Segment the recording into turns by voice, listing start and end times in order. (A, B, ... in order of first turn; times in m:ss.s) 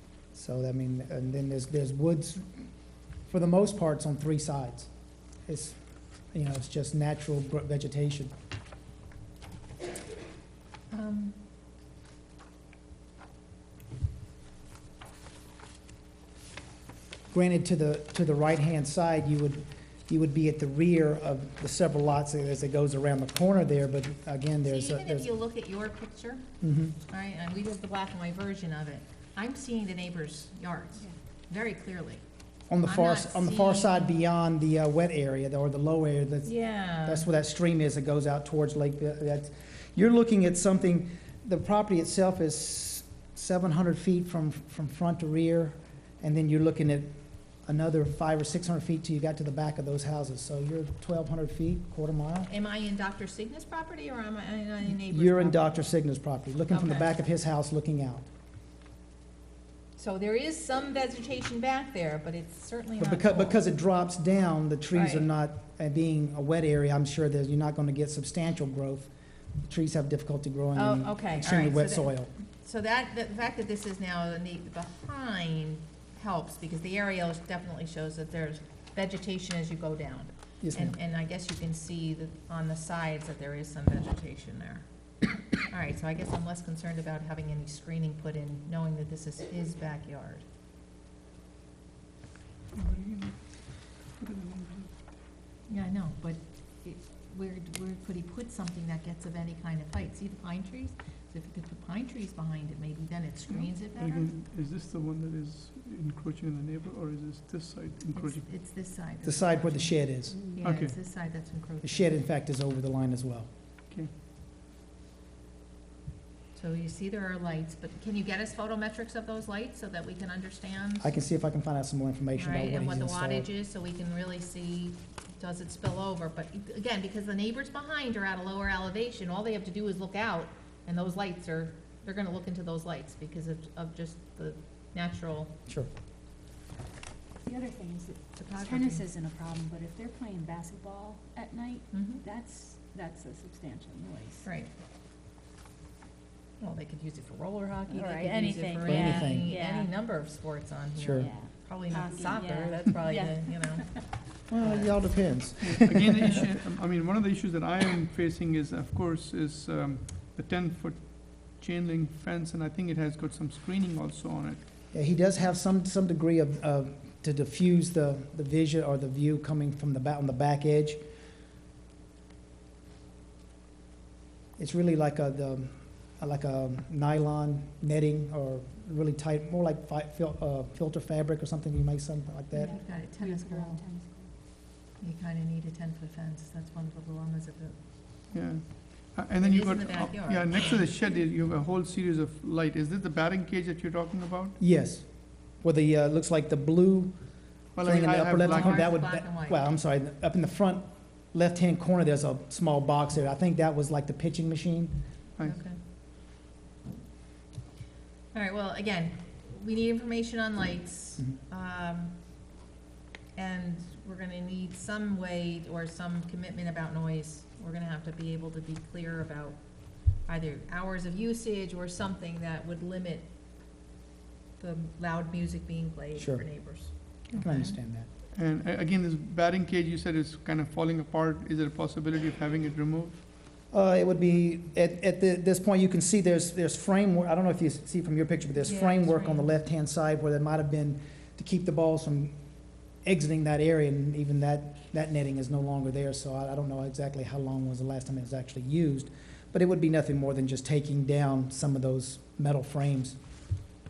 0:00.3-0:02.4 A
0:03.2-0:04.9 A
0:05.4-0:05.8 A
0:06.3-0:08.3 A
0:10.9-0:11.4 B
0:17.3-0:25.2 A
0:24.6-0:26.5 B
0:26.6-0:26.9 A
0:27.1-0:32.2 B
0:32.7-0:47.1 A
0:32.8-0:34.1 B
0:36.4-0:37.3 B
0:47.6-0:52.5 A
0:52.4-0:55.8 B
0:55.0-0:58.2 A
0:56.7-0:57.2 B
1:00.0-1:03.6 B
1:03.0-1:09.1 A
1:04.9-1:05.3 B
1:09.7-1:12.3 A
1:10.7-1:24.8 B
1:20.6-1:20.9 A
1:25.5-1:30.4 B
1:32.7-1:34.9 C
1:35.7-1:44.3 B
1:43.5-1:48.4 C
1:48.1-1:52.2 B
1:49.2-1:50.4 A
1:50.6-1:50.9 C
1:51.8-1:53.5 A
1:56.5-2:01.1 B
2:01.0-2:03.5 A
2:02.3-2:15.5 B
2:17.4-2:24.5 D
2:18.4-2:19.0 B
2:21.9-2:22.2 B
2:24.4-2:24.7 B
2:26.6-2:35.0 B
2:27.9-2:29.9 D
2:28.8-2:29.5 A
2:31.0-2:31.3 A
2:31.2-2:34.0 D
2:34.5-2:36.4 A
2:35.6-2:44.6 C
2:44.9-2:51.0 A
2:54.6-3:02.8 A
3:02.5-3:03.8 B
3:02.6-3:04.3 D
3:05.0-3:07.8 B
3:08.3-3:14.6 C
3:09.4-3:10.9 B
3:14.6-3:17.2 A
3:17.7-3:18.9 C
3:17.7-3:25.0 A
3:18.4-3:19.6 B
3:25.4-3:25.8 B
3:28.3-3:32.1 B
3:33.4-3:43.2 B
3:44.6-3:47.8 B
3:46.2-3:46.8 A
3:47.4-3:48.1 A
3:48.3-3:53.2 C
3:53.7-4:02.4 A
3:58.6-3:59.5 B
4:03.0-4:13.2 A